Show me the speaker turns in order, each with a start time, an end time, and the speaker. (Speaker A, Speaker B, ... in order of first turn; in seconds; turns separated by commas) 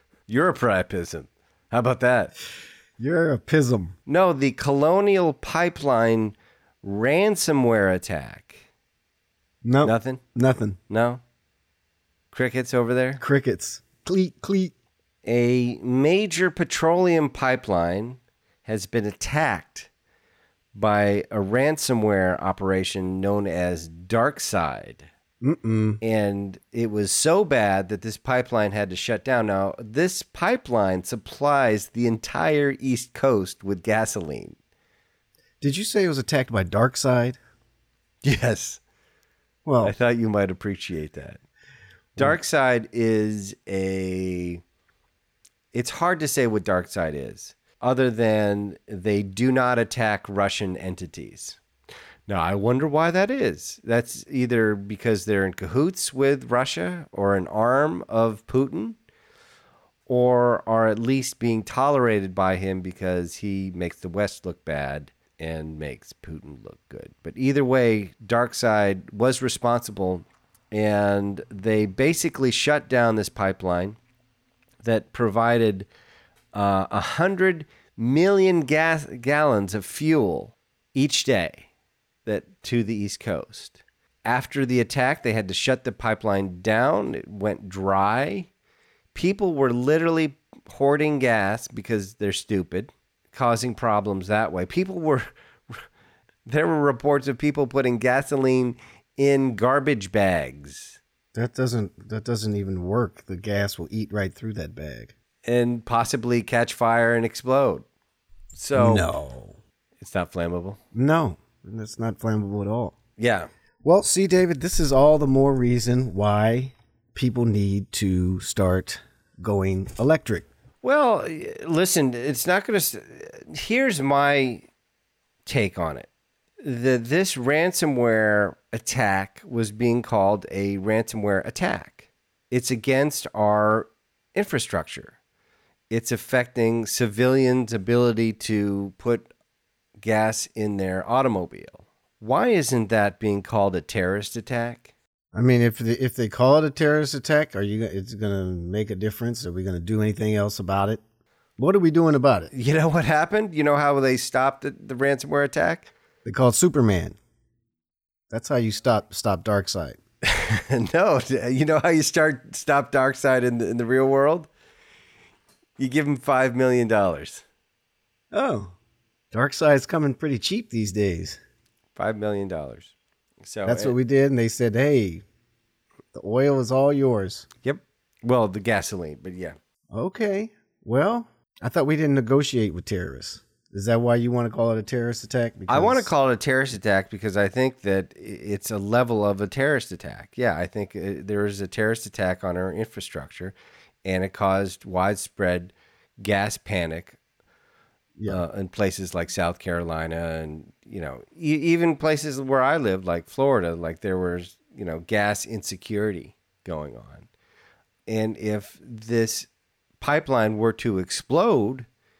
Speaker A: 0.3-2.3, Speaker B: 3.0-3.9, Speaker A: 4.1-8.6, Speaker B: 9.6-10.8, Speaker A: 9.8-10.2, Speaker A: 10.9-11.2, Speaker A: 12.3-13.2, Speaker B: 13.2-14.7, Speaker A: 15.2-19.9, Speaker A: 20.7-25.1, Speaker B: 25.4-26.0, Speaker A: 26.0-34.5, Speaker B: 35.6-37.4, Speaker A: 38.2-38.8, Speaker B: 39.6-39.9, Speaker A: 39.8-41.4, Speaker A: 42.1-44.6, Speaker A: 45.7-51.6, Speaker A: 52.3-59.0, Speaker A: 60.1-74.0, Speaker A: 74.8-75.9, Speaker A: 76.5-81.7, Speaker A: 82.2-88.5, Speaker A: 89.1-95.8, Speaker A: 96.5-101.0, Speaker B: 101.3-105.1, Speaker A: 105.4-107.8, Speaker A: 108.5-109.1, Speaker B: 108.8-109.6, Speaker A: 110.0-110.8, Speaker B: 110.9-112.9, Speaker A: 113.2-113.5, Speaker B: 113.8-120.5, Speaker A: 120.8-124.6, Speaker A: 125.5-126.1, Speaker A: 126.6-135.1, Speaker A: 135.9-139.3, Speaker A: 140.0-144.9, Speaker B: 145.3-151.0, Speaker B: 151.6-152.5, Speaker A: 152.5-155.9, Speaker B: 156.2-157.2, Speaker B: 158.3-160.0, Speaker A: 160.2-164.5, Speaker A: 165.8-167.4, Speaker B: 168.3-168.7, Speaker B: 169.3-171.4, Speaker A: 171.9-173.9, Speaker B: 173.7-175.2, Speaker B: 176.1-177.4, Speaker A: 177.6-179.6, Speaker B: 179.9-186.1, Speaker A: 185.7-197.2, Speaker B: 198.2-198.4, Speaker A: 198.3-207.3, Speaker A: 208.1-209.5, Speaker A: 210.0-211.9